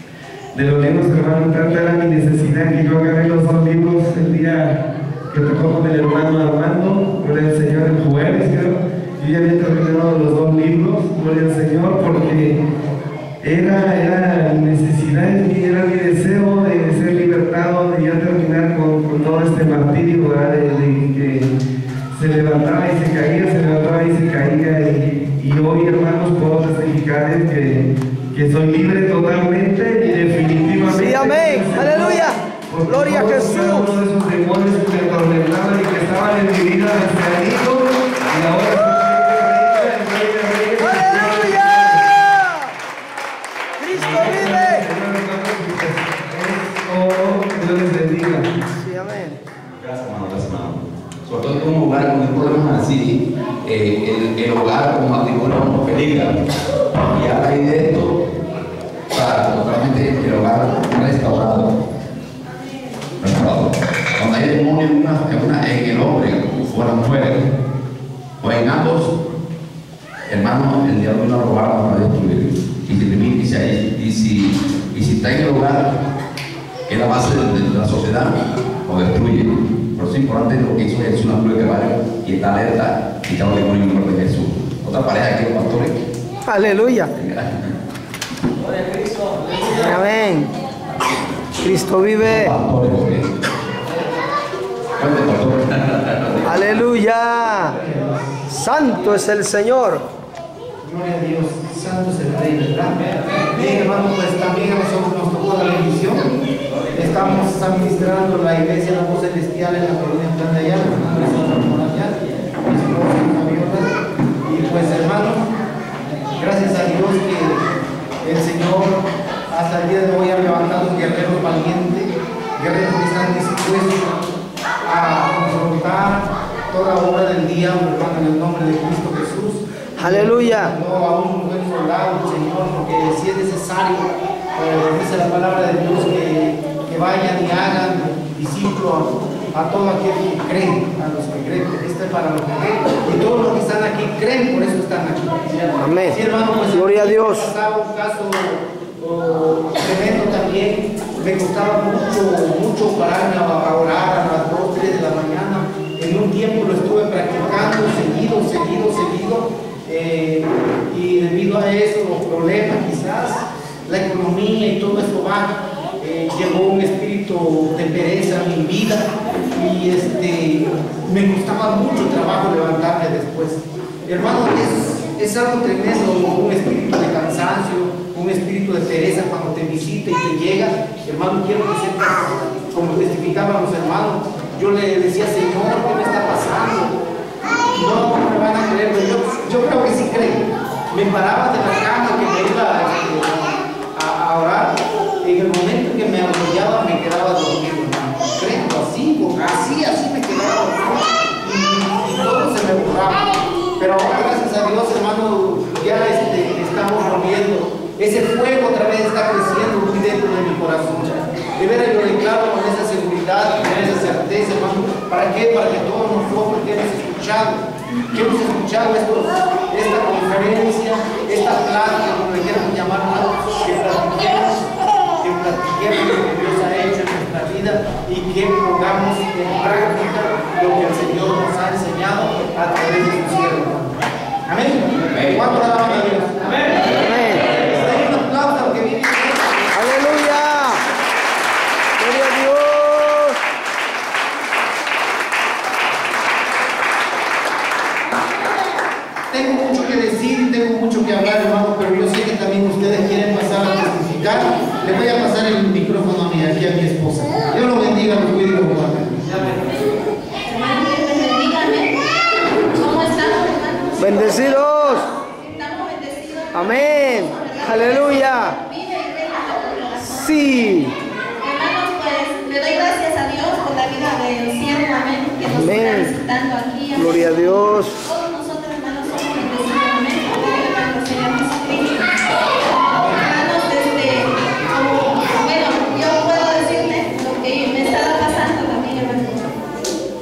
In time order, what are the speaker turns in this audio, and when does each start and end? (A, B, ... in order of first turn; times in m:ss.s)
0:00.5-0:12.6 A
0:13.4-0:21.5 A
0:22.1-0:42.1 A
0:30.9-0:33.9 B
0:40.8-0:41.7 B
0:43.8-0:44.8 B
0:43.9-0:48.5 A
0:48.8-0:49.4 B
0:49.8-0:56.4 C
0:57.0-0:58.3 C
0:59.1-1:01.8 C
1:03.2-1:07.5 C
1:08.4-1:09.1 C
1:10.3-1:15.9 C
1:16.9-1:26.0 C
1:26.4-1:27.1 B
1:27.1-1:27.7 C
1:29.7-1:30.5 B
1:31.6-1:32.5 B
1:32.2-1:33.3 C
1:35.0-1:36.8 C
1:36.4-1:37.7 B
1:37.7-1:38.3 D
1:38.5-1:40.0 B
1:40.8-1:42.9 D
1:43.5-1:46.3 D
1:46.9-1:53.9 D
1:54.4-1:55.4 D
1:56.3-1:57.7 D
1:58.2-2:04.2 D
2:04.8-3:06.9 D
2:10.0-2:10.7 B
2:25.8-2:27.5 B
3:07.7-3:23.3 D
3:23.8-3:44.7 D
3:45.2-3:53.9 D
3:54.4-3:59.7 D
3:55.0-3:56.0 C
3:56.9-3:57.5 B
3:59.7-4:00.8 B
4:02.0-4:03.4 B
4:09.3-4:19.6 D
4:20.4-4:21.9 E
4:22.7-4:30.7 E
4:24.0-4:25.0 B
4:26.5-4:28.5 B
4:30.0-4:30.9 B
4:31.4-4:37.3 E
4:35.4-4:36.1 B
4:36.9-4:37.9 B
4:38.0-4:42.0 E
4:42.9-4:49.5 E